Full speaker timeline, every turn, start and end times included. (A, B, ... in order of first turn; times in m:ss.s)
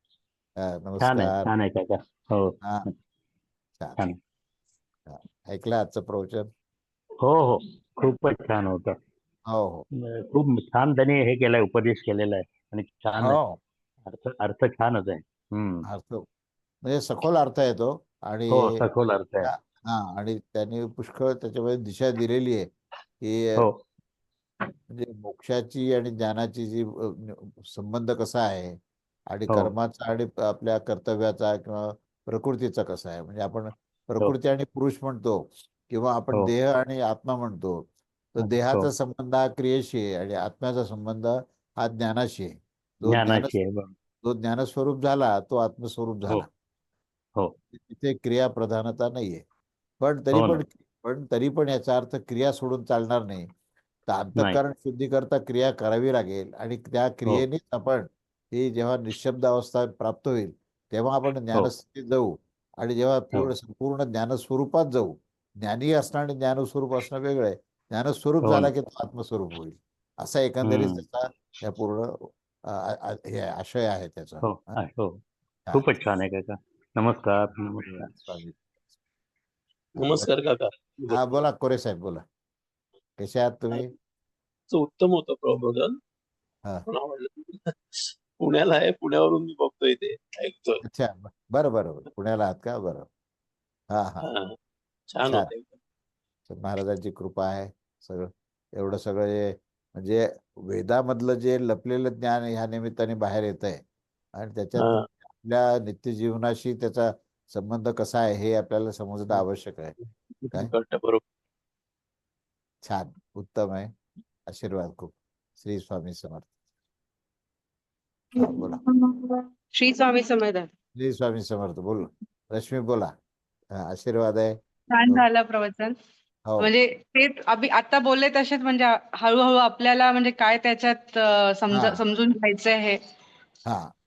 0:00.6-0:01.4 A
0:01.0-0:02.9 B
0:05.1-0:06.5 A
0:07.2-0:09.0 B
0:09.5-0:09.8 A
0:10.1-0:13.4 B
0:13.2-0:13.6 A
0:14.0-0:15.8 B
0:15.8-0:16.2 A
0:16.8-0:18.8 A
0:18.5-0:19.5 B
0:19.4-0:22.7 A
0:23.2-0:23.6 A
0:24.9-0:28.8 A
0:29.3-0:37.8 A
0:38.3-0:43.5 A
0:38.4-0:38.9 B
0:43.0-0:43.9 B
0:44.2-0:46.5 A
0:47.7-0:49.4 A
0:50.0-0:53.5 A
0:50.3-0:50.6 B
0:54.1-1:14.8 A
1:08.4-1:08.7 B
1:10.6-1:11.0 B
1:14.4-1:15.2 B
1:15.7-1:18.1 B
1:18.1-1:18.6 A
1:20.0-1:21.2 C
1:21.1-1:22.2 A
1:23.2-1:23.9 A
1:24.7-1:26.0 C
1:26.9-1:30.8 C
1:30.8-1:33.1 A
1:33.9-1:34.3 A
1:34.2-1:34.5 C
1:35.1-1:35.8 C
1:35.2-1:35.5 A
1:36.5-1:43.8 A
1:44.3-1:50.0 A
1:44.8-1:45.1 C
1:50.4-1:51.2 C
1:52.8-1:53.9 A
1:54.5-1:56.5 A
1:58.4-1:58.8 A
1:58.4-2:00.7 D
2:00.9-2:03.1 A
2:03.7-2:05.2 A
2:04.9-2:05.9 D
2:06.6-2:13.0 D
2:13.6-2:13.9 A